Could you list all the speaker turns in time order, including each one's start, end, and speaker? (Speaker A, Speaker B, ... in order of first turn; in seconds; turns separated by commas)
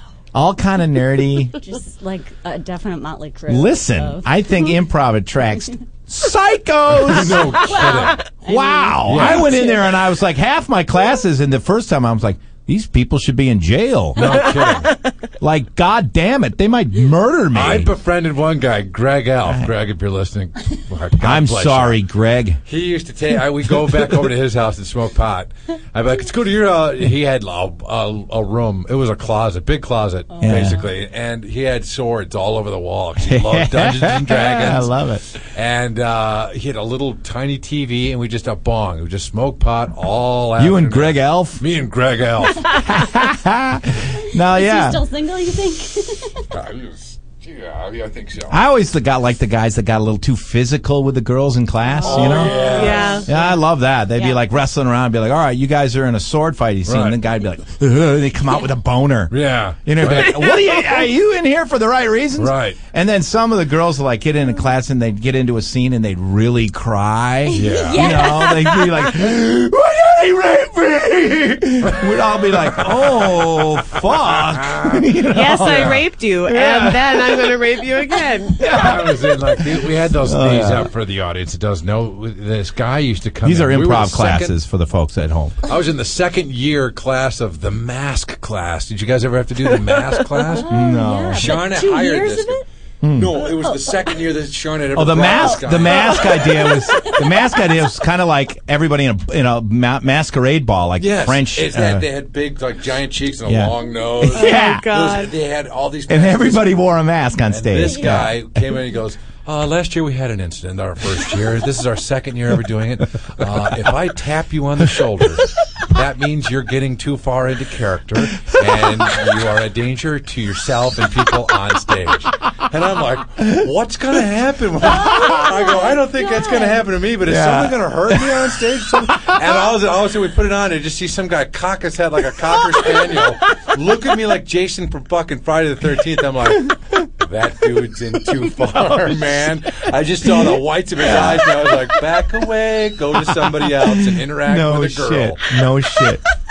Speaker A: 0.3-1.6, Speaker B: 1.6-4.3, Speaker A: 3.5-7.7, Speaker C: 6.9-8.2, Speaker B: 7.6-10.0, Speaker A: 8.4-14.4, Speaker C: 9.1-9.6, Speaker C: 14.2-14.9, Speaker A: 15.4-17.9, Speaker C: 17.5-22.0, Speaker A: 21.2-22.6, Speaker C: 22.7-34.9, Speaker B: 30.3-30.9, Speaker A: 30.4-30.8, Speaker A: 33.2-35.3, Speaker C: 35.5-42.7, Speaker A: 40.6-41.6, Speaker A: 42.7-45.0, Speaker B: 44.5-46.5, Speaker C: 46.5-48.6, Speaker A: 48.5-77.6, Speaker B: 51.9-54.4, Speaker C: 52.0-53.2, Speaker D: 52.3-53.3, Speaker C: 56.9-57.2, Speaker C: 59.3-60.4, Speaker C: 62.4-62.8, Speaker B: 67.5-68.9, Speaker C: 67.5-68.2, Speaker C: 71.8-75.0, Speaker D: 75.3-78.7, Speaker C: 75.6-76.0, Speaker A: 78.6-80.9, Speaker C: 78.6-84.6, Speaker A: 83.4-85.6, Speaker C: 85.7-90.7, Speaker B: 90.7-92.6, Speaker A: 90.7-91.5, Speaker C: 91.4-92.6, Speaker A: 93.0-93.3, Speaker C: 93.1-96.5, Speaker A: 94.9-102.1, Speaker C: 101.0-106.8, Speaker A: 103.5-104.9, Speaker D: 104.3-105.3, Speaker A: 106.1-108.5, Speaker C: 107.5-145.5, Speaker A: 127.2-128.5, Speaker A: 129.1-129.4, Speaker A: 138.7-139.3, Speaker A: 140.2-141.9, Speaker A: 143.1-146.2